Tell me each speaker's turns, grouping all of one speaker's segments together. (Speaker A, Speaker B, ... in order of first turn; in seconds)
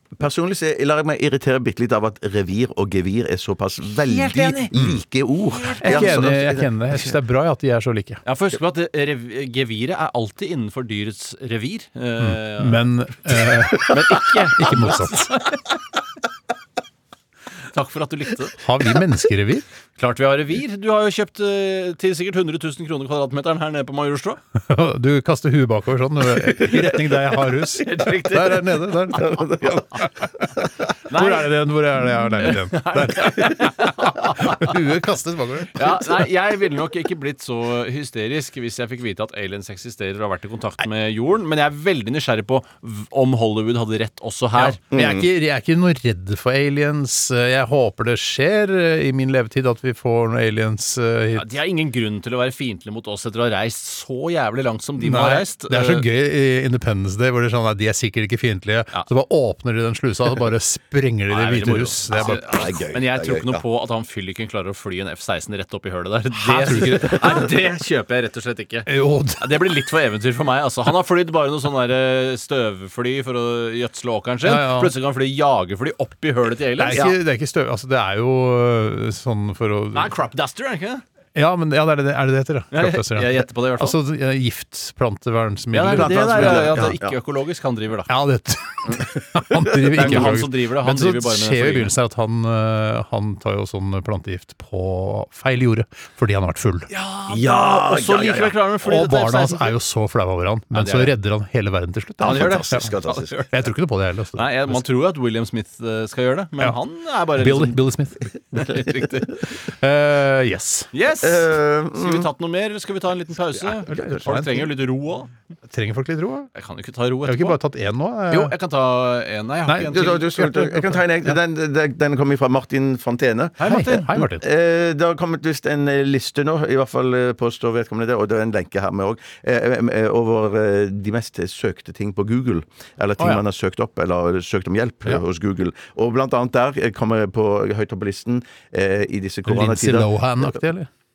Speaker A: 0.1-7.2, 29.1-30.0, 44.9-45.3, 62.1-63.6, 85.9-87.1, 89.5-90.3, 97.3-98.6, 102.2-103.3, 111.2-112.3, 113.9-114.2, 119.9-140.6
Speaker B: 4.0-4.7, 5.5-6.3, 8.2-12.8, 13.8-15.6, 17.7-18.6, 20.0-24.4, 26.4-28.9, 31.1-31.5, 32.4-34.8, 35.7-44.8, 51.3-56.0, 61.3-77.1, 79.9-81.0, 82.7-84.0, 85.7-88.1, 89.9-91.9, 96.9-99.7, 100.7-101.1, 102.2-103.6, 104.3-107.8, 108.5-109.3, 110.9-115.3, 116.5-117.6, 118.3-120.2, 123.6-124.1
Speaker C: 5.8-8.2, 12.2-15.3, 18.6-19.6, 24.6-30.5, 31.1-36.2, 44.6-51.5, 55.0-62.4, 66.4-67.5, 68.9-69.5, 74.4-74.9, 76.8-80.1, 81.3-86.9, 88.1-96.9, 98.8-102.9, 103.5-104.8, 107.3-108.3, 109.5-110.9, 113.9-114.7, 115.7-116.5, 117.2-118.5, 119.7-121.3, 123.6-124.4, 139.4-140.9